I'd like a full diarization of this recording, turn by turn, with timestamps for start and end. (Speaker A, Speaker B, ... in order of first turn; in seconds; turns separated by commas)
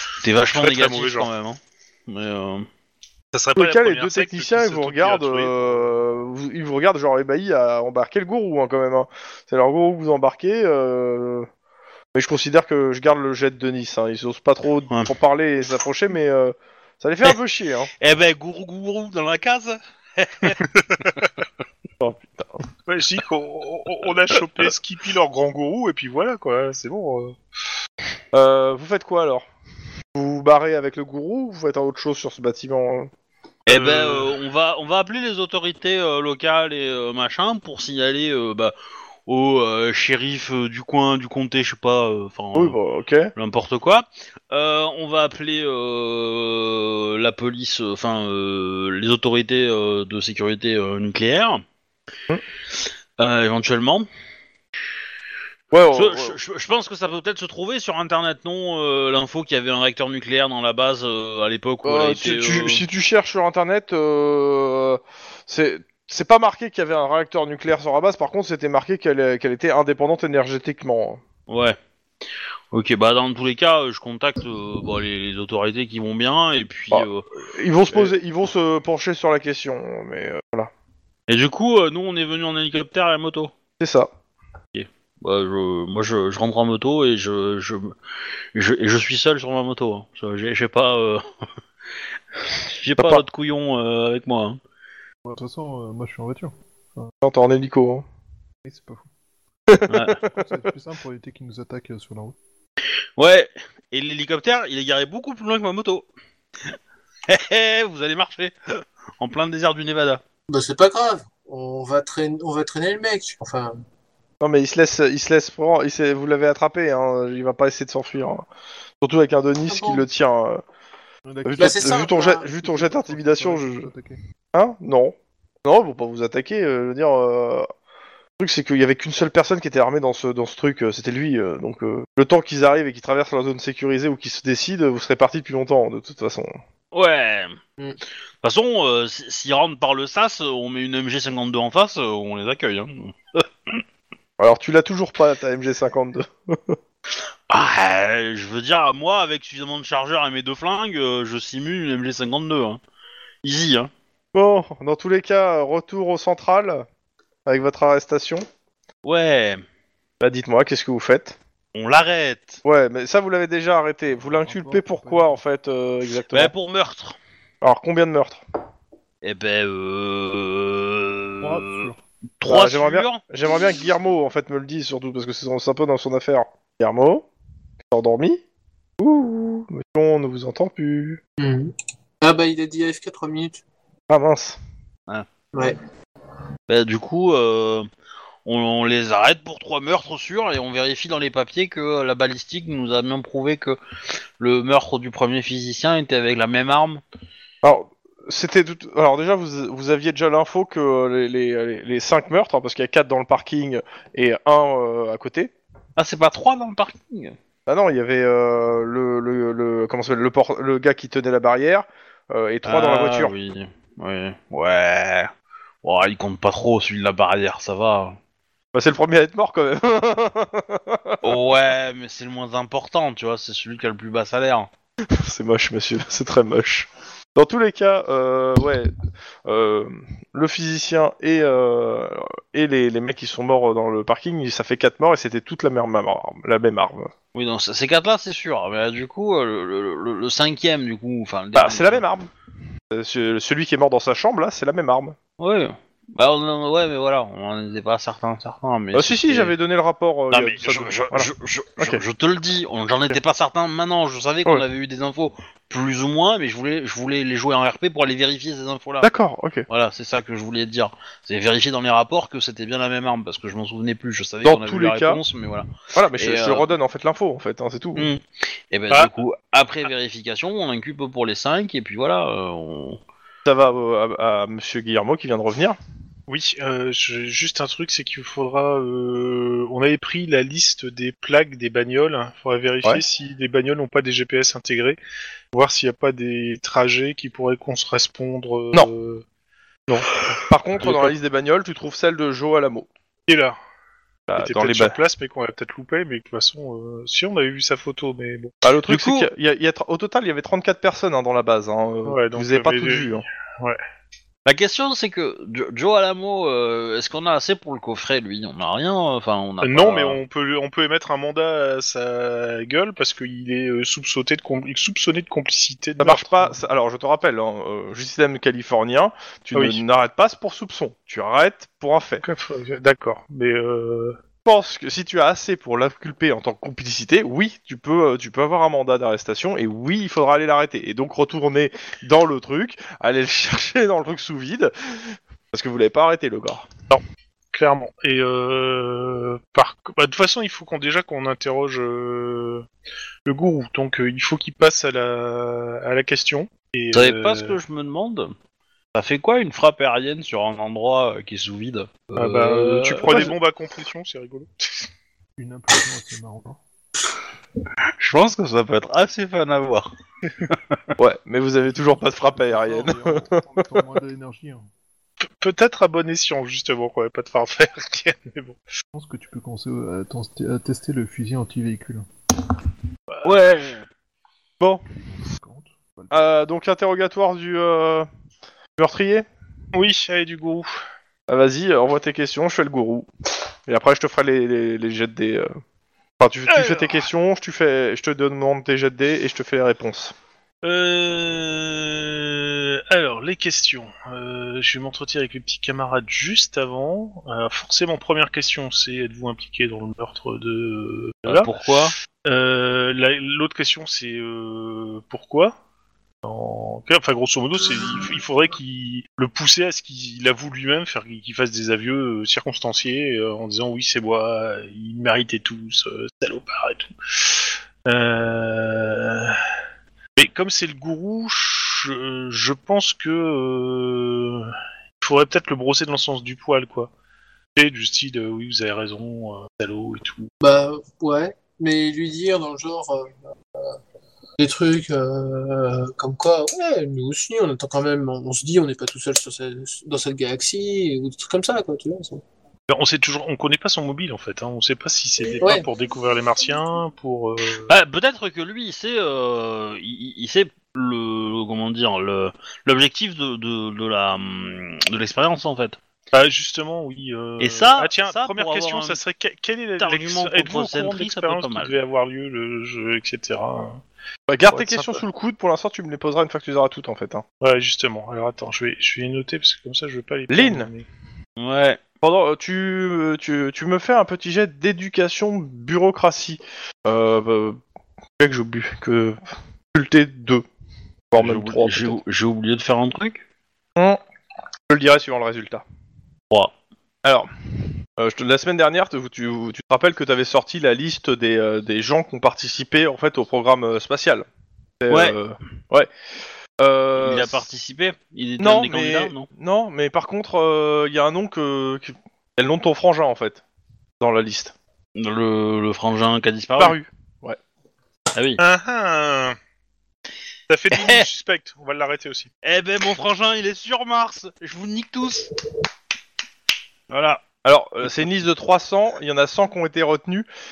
Speaker A: 0.2-2.7, Speaker B: 0.4-1.3, Speaker B: 3.3-6.0, Speaker C: 3.6-11.5, Speaker C: 12.1-17.9, Speaker A: 18.0-20.6, Speaker B: 20.6-21.1, Speaker C: 22.0-22.6, Speaker B: 22.9-27.4, Speaker C: 28.3-29.4, Speaker C: 30.1-33.1, Speaker A: 33.7-38.7, Speaker B: 33.7-34.3, Speaker A: 39.3-42.8, Speaker C: 42.5-43.3, Speaker A: 43.3-51.6, Speaker A: 53.2-54.1, Speaker C: 55.7-56.4, Speaker A: 55.9-62.8, Speaker C: 61.8-71.2, Speaker A: 71.5-71.8, Speaker A: 72.7-77.2, Speaker C: 76.9-80.7, Speaker A: 81.3-83.5, Speaker C: 83.8-84.1, Speaker A: 84.7-87.9, Speaker A: 88.5-91.2, Speaker A: 92.5-94.6, Speaker C: 93.0-93.2, Speaker D: 95.2-97.1, Speaker C: 97.2-98.0, Speaker D: 98.6-99.1, Speaker C: 99.7-100.6, Speaker A: 99.9-100.2, Speaker D: 100.3-102.3, Speaker A: 103.2-106.0, Speaker A: 107.3-110.2, Speaker E: 110.5-113.8, Speaker C: 114.4-118.5, Speaker C: 119.0-120.6, Speaker E: 119.7-120.0, Speaker D: 121.2-124.2, Speaker C: 121.4-123.9, Speaker E: 121.6-122.4, Speaker C: 124.5-127.7, Speaker C: 128.4-136.6, Speaker A: 136.9-137.6, Speaker A: 138.4-143.8, Speaker C: 144.4-146.8, Speaker A: 147.5-152.8, Speaker A: 153.4-153.9, Speaker C: 154.3-156.8, Speaker C: 157.4-158.4, Speaker A: 159.0-159.6, Speaker C: 160.2-161.4, Speaker A: 161.7-162.6, Speaker C: 162.6-166.5, Speaker D: 164.1-165.4, Speaker A: 166.3-167.2, Speaker C: 167.6-168.4, Speaker A: 169.2-171.9, Speaker D: 171.4-172.0, Speaker A: 172.4-173.2, Speaker C: 172.4-177.3, Speaker C: 177.9-178.4, Speaker C: 179.0-181.2, Speaker E: 181.4-183.6, Speaker C: 184.1-184.6, Speaker A: 186.7-187.9, Speaker A: 188.4-193.8, Speaker A: 194.4-197.0, Speaker C: 197.6-205.5, Speaker A: 206.0-207.3, Speaker C: 207.7-213.3, Speaker A: 212.6-215.3, Speaker A: 215.8-218.2, Speaker C: 218.7-221.4, Speaker A: 221.2-224.7, Speaker C: 225.1-228.9, Speaker C: 229.4-237.1, Speaker A: 237.3-242.0, Speaker C: 241.5-242.3, Speaker C: 242.9-245.2, Speaker A: 245.4-249.5, Speaker C: 248.9-252.0, Speaker A: 250.3-259.1, Speaker C: 259.0-259.6, Speaker A: 259.7-266.7, Speaker C: 264.4-265.2, Speaker C: 265.9-268.1, Speaker A: 267.9-273.0, Speaker C: 273.4-275.8, Speaker B: 276.3-285.0, Speaker B: 285.5-289.2, Speaker C: 289.9-292.9, Speaker B: 290.8-291.1, Speaker B: 293.3-293.6, Speaker C: 294.3-294.9, Speaker B: 294.4-298.5, Speaker C: 298.6-303.2, Speaker A: 298.9-299.3, Speaker B: 302.1-303.8, Speaker A: 304.4-310.2, Speaker B: 309.6-316.6, Speaker C: 316.0-322.2, Speaker B: 319.5-319.8, Speaker B: 322.2-324.2, Speaker C: 324.4-336.7, Speaker B: 337.5-342.6, Speaker B: 343.2-347.6, Speaker A: 346.9-348.3, Speaker A: 348.9-353.3, Speaker B: 352.1-354.8, Speaker C: 353.1-353.3, Speaker D: 355.4-356.6, Speaker A: 358.0-359.9, Speaker C: 361.0-363.8, Speaker D: 362.3-364.6, Speaker B: 365.3-368.6, Speaker D: 368.9-372.1, Speaker B: 373.1-373.4, Speaker A: 373.2-373.9, Speaker D: 375.1-376.2, Speaker C: 376.1-378.1, Speaker C: 378.8-379.2, Speaker B: 379.7-380.8, Speaker C: 381.3-383.1, Speaker C: 383.7-385.5, Speaker C: 386.2-390.1, Speaker B: 386.5-387.1, Speaker B: 390.6-401.5, Speaker A: 401.2-401.9, Speaker B: 402.2-405.5, Speaker B: 406.2-419.4, Speaker B: 420.2-426.9, Speaker B: 427.5-430.3, Speaker E: 430.4-433.6, Speaker E: 434.4-442.2, Speaker B: 442.7-447.7, Speaker E: 445.4-445.6, Speaker A: 447.7-455.8, Speaker B: 456.1-463.8, Speaker A: 457.4-459.0, Speaker A: 459.8-461.7, Speaker C: 464.3-467.2, Speaker B: 464.4-465.0, Speaker B: 467.4-470.9, Speaker C: 470.3-470.7, Speaker A: 471.4-471.8, Speaker C: 472.0-477.6, Speaker C: 478.2-479.2, Speaker C: 479.7-480.4, Speaker C: 481.1-482.0, Speaker A: 481.1-483.2, Speaker C: 484.7-485.6, Speaker C: 487.0-487.3, Speaker C: 487.9-494.3, Speaker C: 494.8-495.9, Speaker A: 494.9-495.1, Speaker C: 496.6-497.4, Speaker A: 496.9-499.3, Speaker C: 498.4-503.4, Speaker C: 504.0-504.5, Speaker A: 504.9-506.8, Speaker C: 506.6-507.4, Speaker A: 508.1-508.4, Speaker B: 508.4-509.4, Speaker B: 510.5-512.3, Speaker A: 510.7-511.0, Speaker A: 512.4-515.3, Speaker A: 516.9-517.2, Speaker C: 517.4-520.3